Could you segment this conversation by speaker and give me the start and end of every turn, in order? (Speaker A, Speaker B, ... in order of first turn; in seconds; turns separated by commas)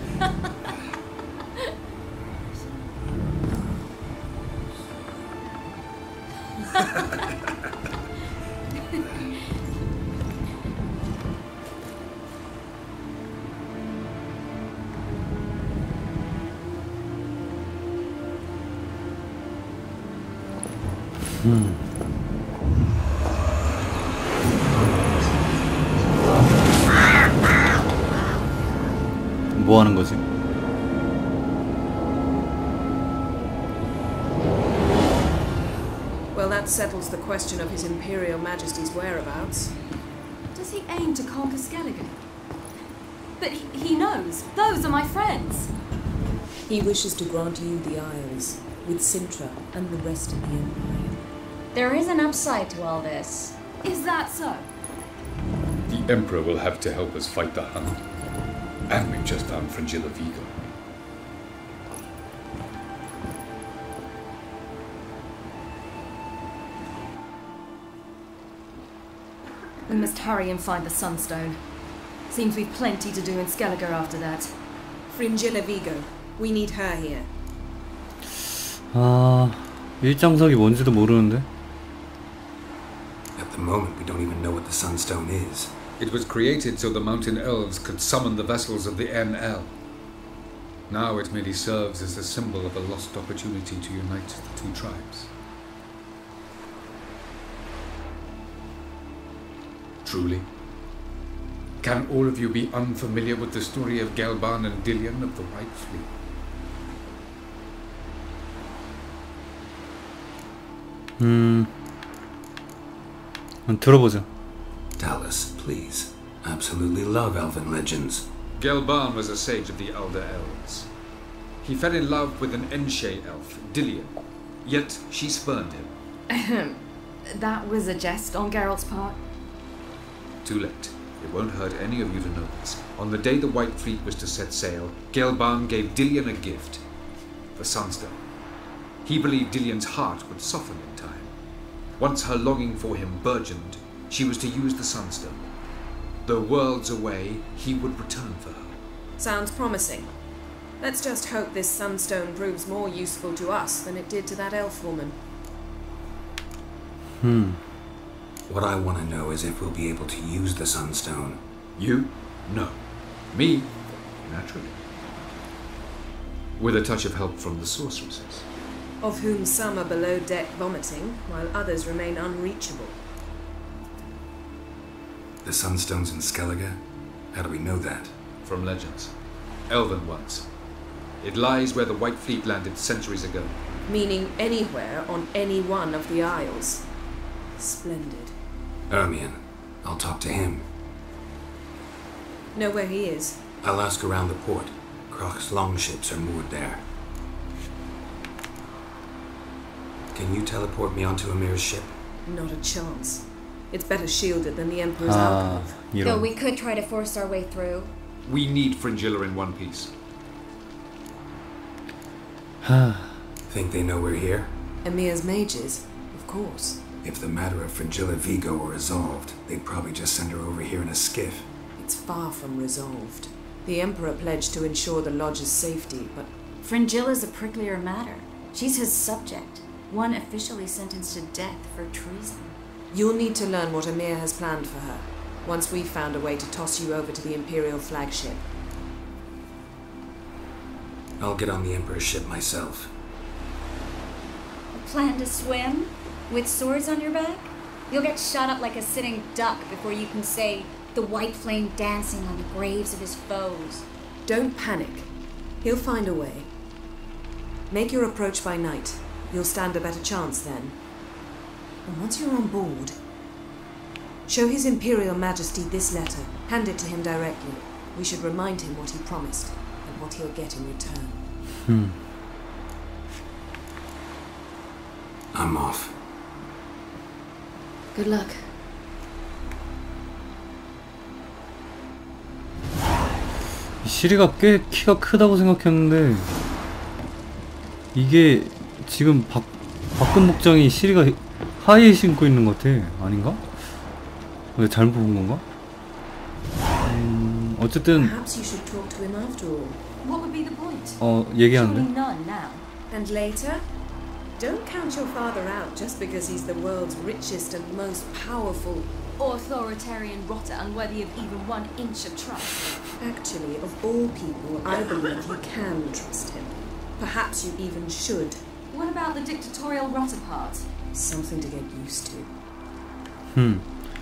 Speaker A: 21.3-21.8, Speaker A: 29.5-30.2, Speaker B: 36.3-39.7, Speaker C: 40.5-42.1, Speaker C: 43.4-45.7, Speaker B: 46.7-51.3, Speaker D: 51.7-53.6, Speaker C: 53.8-54.7, Speaker E: 55.9-58.0, Speaker E: 58.9-60.6, Speaker C: 69.9-71.6, Speaker C: 72.3-74.5, Speaker B: 75.1-77.3, Speaker A: 78.9-81.5, Speaker F: 83.4-85.8, Speaker E: 86.0-89.7, Speaker E: 90.9-95.3, Speaker E: 100.0-100.5, Speaker E: 101.8-106.1, Speaker A: 111.2-111.7, Speaker A: 113.7-114.3, Speaker F: 115.0-118.3, Speaker E: 118.6-120.9, Speaker E: 121.6-125.9, Speaker C: 126.3-129.2, Speaker E: 130.4-136.8, Speaker E: 137.5-138.2, Speaker E: 139.0-141.3, Speaker E: 142.0-145.5, Speaker E: 146.2-148.8, Speaker B: 149.2-150.1, Speaker B: 150.8-155.2, Speaker A: 157.2-157.6, Speaker F: 158.5-161.4, Speaker E: 161.8-162.8, Speaker E: 163.3-164.8, Speaker E: 166.6-168.4, Speaker B: 169.0-173.0, Speaker F: 175.4-176.8, Speaker F: 177.3-178.1, Speaker E: 178.4-179.1, Speaker E: 179.7-180.5, Speaker E: 181.2-183.6, Speaker B: 183.9-186.9, Speaker B: 187.6-188.3, Speaker F: 188.9-190.7, Speaker B: 192.5-193.4, Speaker F: 193.6-196.8, Speaker F: 200.1-201.9, Speaker B: 202.2-205.8, Speaker A: 205.0-206.3, Speaker D: 206.0-207.9, Speaker E: 208.2-209.9, Speaker A: 212.6-213.2, Speaker F: 213.5-214.5, Speaker B: 214.8-216.8, Speaker F: 217.0-221.5, Speaker B: 221.8-226.3, Speaker D: 226.6-232.6, Speaker B: 232.9-238.4, Speaker F: 241.2-242.9, Speaker D: 244.7-253.9, Speaker B: 254.2-255.1, Speaker B: 255.6-256.5, Speaker B: 257.7-260.8, Speaker B: 261.9-263.0, Speaker B: 264.2-271.2, Speaker A: 271.7-272.0, Speaker F: 275.3-275.9, Speaker A: 283.8-286.3, Speaker A: 287.9-293.4, Speaker A: 294.6-295.4, Speaker A: 296.8-298.1, Speaker B: 297.9-299.8, Speaker C: 300.0-302.6, Speaker A: 301.0-301.9, Speaker B: 302.9-303.6, Speaker B: 304.4-309.0, Speaker C: 309.2-312.8, Speaker B: 313.0-318.4, Speaker C: 318.7-320.7, Speaker B: 320.9-322.3, Speaker A: 323.3-323.6